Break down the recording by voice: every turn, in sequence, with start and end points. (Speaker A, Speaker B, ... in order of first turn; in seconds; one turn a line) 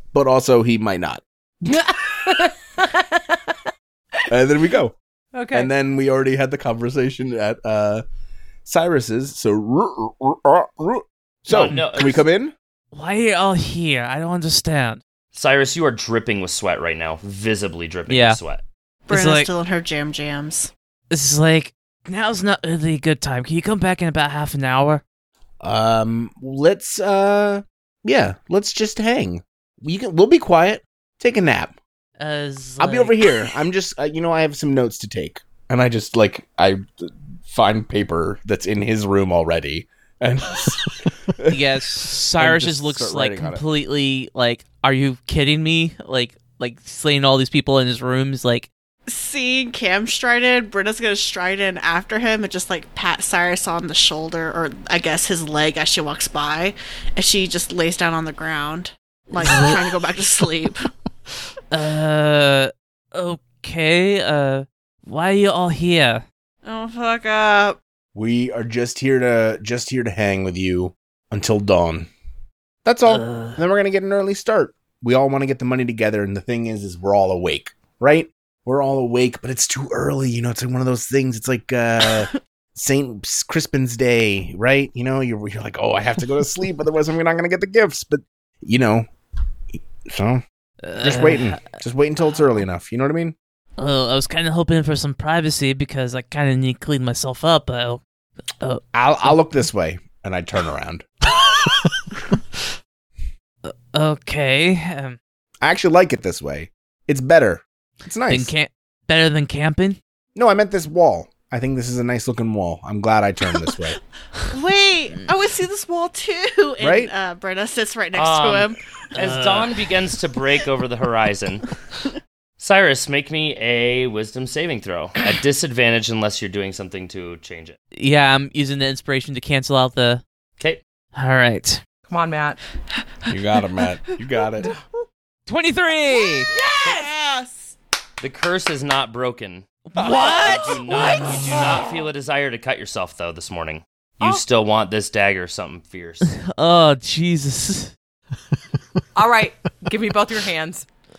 Speaker A: 0.1-1.9
Speaker B: 1.7-3.6
Speaker A: 4.3-4.9
Speaker B: 5.3-5.7
Speaker A: 5.5-8.0
Speaker A: 8.6-12.5
Speaker C: 11.5-12.2
Speaker D: 12.9-15.0
Speaker C: 15.3-18.6
Speaker D: 18.1-18.4
Speaker E: 19.1-20.7
Speaker D: 19.1-19.5
Speaker D: 21.1-25.0
Speaker A: 25.6-31.7
Speaker D: 32.2-33.1
Speaker A: 32.8-43.6
Speaker D: 41.5-48.7
Speaker E: 49.1-60.8
Speaker D: 59.4-59.8
Speaker D: 61.7-66.2
Speaker E: 66.6-67.8
Speaker A: 68.1-72.1
Speaker A: 72.8-89.1
Speaker D: 73.1-73.6
Speaker A: 89.7-90.4
Speaker D: 90.8-91.6
Speaker A: 91.0-93.3
Speaker D: 93.8-98.0
Speaker D: 98.6-99.3
Speaker A: 98.9-101.1
Speaker D: 103.6-105.2
Speaker A: 105.6-108.5
Speaker D: 108.3-110.0
Speaker A: 110.3-114.0
Speaker E: 114.5-118.8
Speaker A: 116.8-117.1
Speaker C: 118.1-121.6
Speaker D: 119.2-119.7
Speaker C: 122.6-127.8
Speaker D: 127.9-130.2
Speaker D: 131.1-131.8
Speaker B: 132.1-132.6
Speaker A: 133.3-134.7
Speaker D: 135.5-136.5
Speaker E: 136.1-137.7
Speaker B: 136.5-137.1
Speaker C: 138.2-146.3
Speaker D: 139.9-141.6
Speaker E: 140.2-140.6
Speaker D: 146.3-147.9
Speaker B: 149.1-150.9